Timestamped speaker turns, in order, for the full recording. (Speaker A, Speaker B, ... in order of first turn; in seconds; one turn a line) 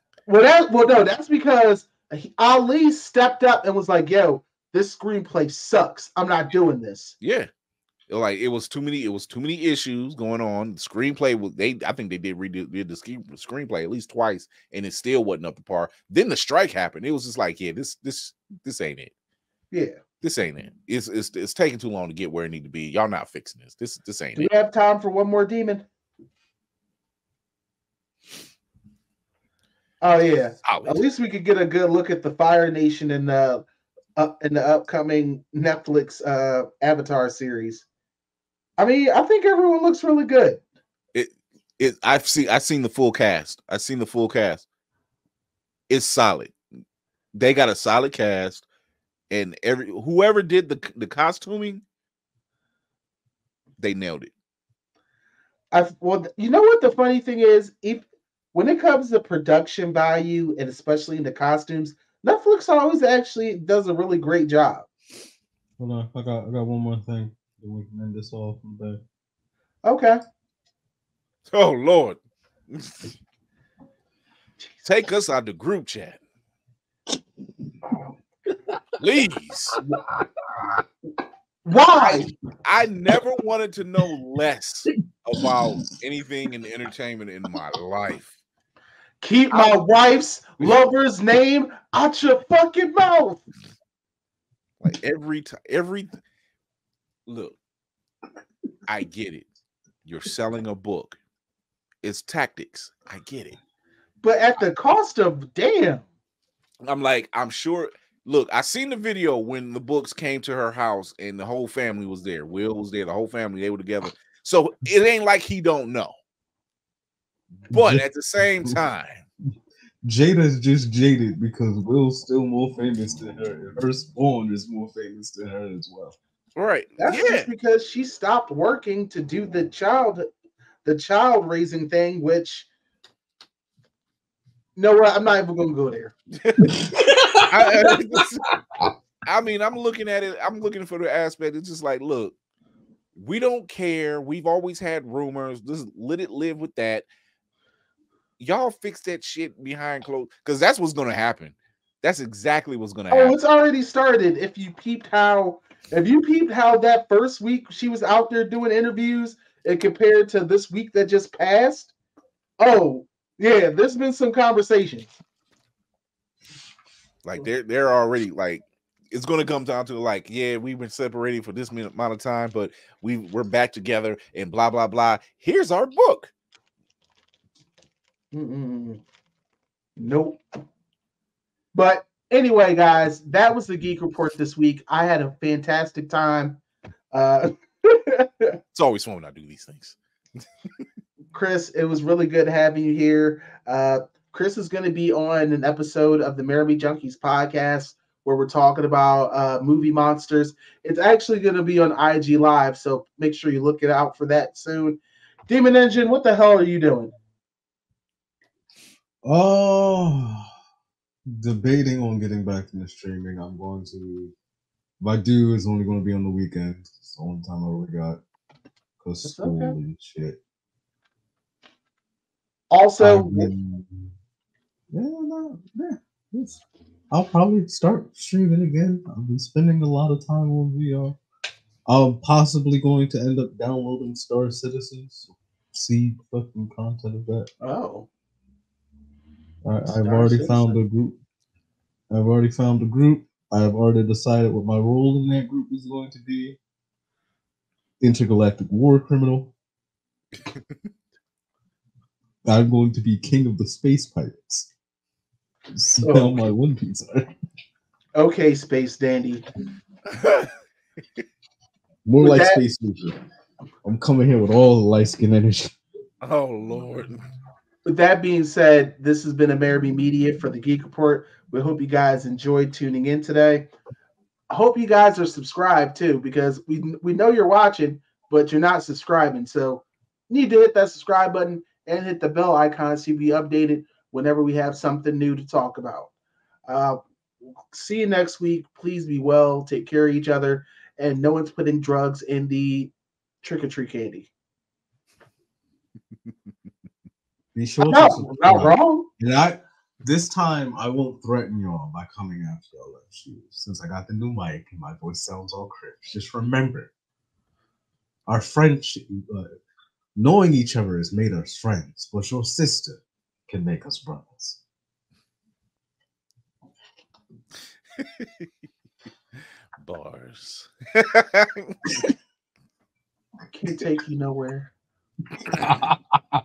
Speaker A: 0.3-7.2
Speaker B: 7.2-7.5
Speaker B: 8.1-19.1
Speaker A: 19.7-20.0
Speaker B: 20.2-24.5
Speaker A: 24.4-25.8
Speaker A: 30.0-33.6
Speaker B: 30.6-31.0
Speaker A: 34.2-37.9
Speaker A: 38.8-40.6
Speaker B: 41.1-44.6
Speaker B: 45.9-46.5
Speaker B: 47.3-48.6
Speaker B: 49.3-51.8
Speaker B: 53.8-54.3
Speaker A: 55.7-64.9
Speaker C: 65.8-69.0
Speaker A: 69.8-70.2
Speaker B: 71.5-72.2
Speaker B: 72.7-73.1
Speaker B: 74.8-76.2
Speaker B: 79.0-79.8
Speaker A: 81.7-82.3
Speaker B: 82.0-88.3
Speaker A: 89.2-93.4
Speaker B: 94.8-96.2
Speaker B: 97.3-97.6
Speaker B: 98.9-99.5
Speaker B: 100.0-101.2
Speaker B: 102.0-103.6
Speaker A: 104.2-106.1
Speaker B: 106.8-116.2
Speaker B: 117.5-119.2
Speaker C: 117.7-118.0
Speaker C: 120.0-126.2
Speaker B: 126.6-127.5
Speaker A: 127.0-130.3
Speaker A: 130.8-132.7
Speaker A: 134.8-136.1
Speaker B: 136.4-136.7
Speaker C: 136.6-138.2
Speaker B: 137.5-138.5
Speaker B: 139.2-142.3
Speaker B: 143.2-147.1
Speaker B: 148.4-153.4
Speaker A: 153.1-161.9
Speaker A: 162.6-165.1
Speaker B: 167.2-176.3
Speaker A: 178.3-179.0
Speaker A: 180.0-180.4
Speaker A: 181.7-186.6
Speaker A: 187.1-188.6
Speaker B: 188.7-190.0
Speaker A: 191.3-207.1
Speaker C: 209.2-210.5
Speaker C: 211.3-214.3
Speaker C: 215.0-218.2
Speaker C: 219.0-220.4
Speaker A: 219.2-219.8
Speaker A: 222.7-223.5
Speaker C: 223.0-224.1
Speaker C: 224.9-231.2
Speaker C: 231.9-237.5
Speaker A: 237.6-238.1
Speaker C: 239.6-241.2
Speaker A: 239.8-240.8
Speaker C: 242.1-246.6
Speaker C: 248.0-249.5
Speaker C: 252.4-254.7
Speaker C: 255.7-257.3
Speaker A: 256.0-256.5
Speaker A: 258.1-259.4
Speaker B: 260.1-260.5
Speaker C: 262.1-263.2
Speaker A: 262.2-262.6
Speaker C: 263.8-265.8
Speaker B: 266.2-267.2
Speaker A: 267.9-273.7
Speaker A: 274.5-286.1
Speaker A: 286.7-287.0
Speaker A: 287.7-294.3
Speaker C: 297.6-306.9
Speaker A: 297.8-299.1
Speaker C: 308.3-309.6
Speaker C: 310.2-314.6
Speaker B: 318.0-318.5
Speaker B: 319.8-321.8
Speaker A: 323.5-324.7
Speaker C: 325.4-326.0
Speaker B: 325.5-325.8